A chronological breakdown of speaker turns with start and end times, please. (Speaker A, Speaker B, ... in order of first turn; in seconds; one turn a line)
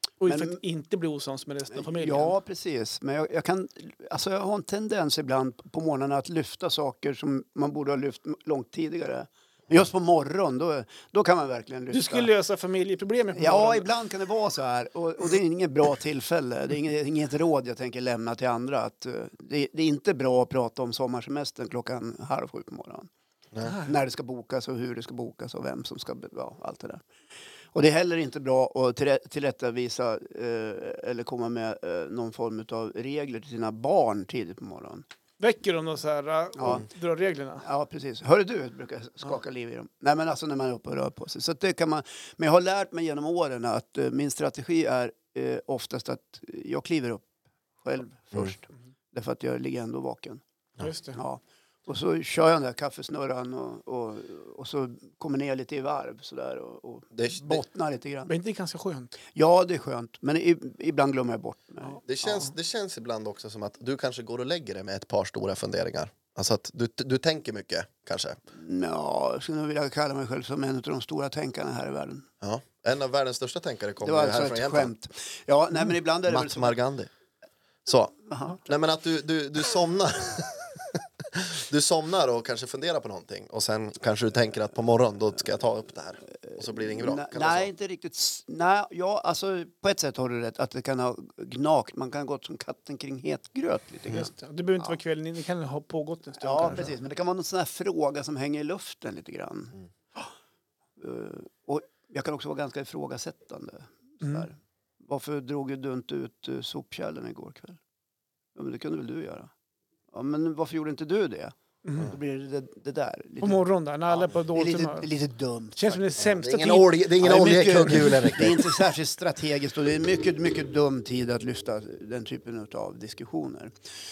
Speaker A: 0.2-2.4
Speaker B: 0.3-0.6
Speaker B: 1.7-12.3
Speaker A: 11.9-13.9
Speaker B: 13.3-23.1
Speaker B: 23.7-27.0
Speaker B: 27.7-35.0
Speaker A: 35.4-37.6
Speaker B: 36.5-36.9
Speaker B: 37.6-47.3
Speaker B: 47.8-50.4
Speaker A: 50.8-51.2
Speaker B: 51.1-58.3
Speaker C: 57.1-57.6
Speaker A: 58.3-59.2
Speaker B: 59.3-62.3
Speaker C: 62.1-68.4
Speaker B: 68.5-72.3
Speaker C: 72.4-74.9
Speaker B: 74.0-76.8
Speaker C: 76.3-77.1
Speaker C: 77.8-87.7
Speaker B: 78.3-78.6
Speaker B: 86.4-94.3
Speaker A: 94.1-96.9
Speaker B: 96.4-99.8
Speaker B: 101.0-107.8
Speaker A: 104.2-104.5
Speaker B: 108.5-109.5
Speaker B: 110.1-113.6
Speaker A: 111.8-112.1
Speaker A: 113.4-115.1
Speaker B: 114.5-116.0
Speaker A: 115.8-116.9
Speaker C: 116.2-118.8
Speaker B: 117.2-123.7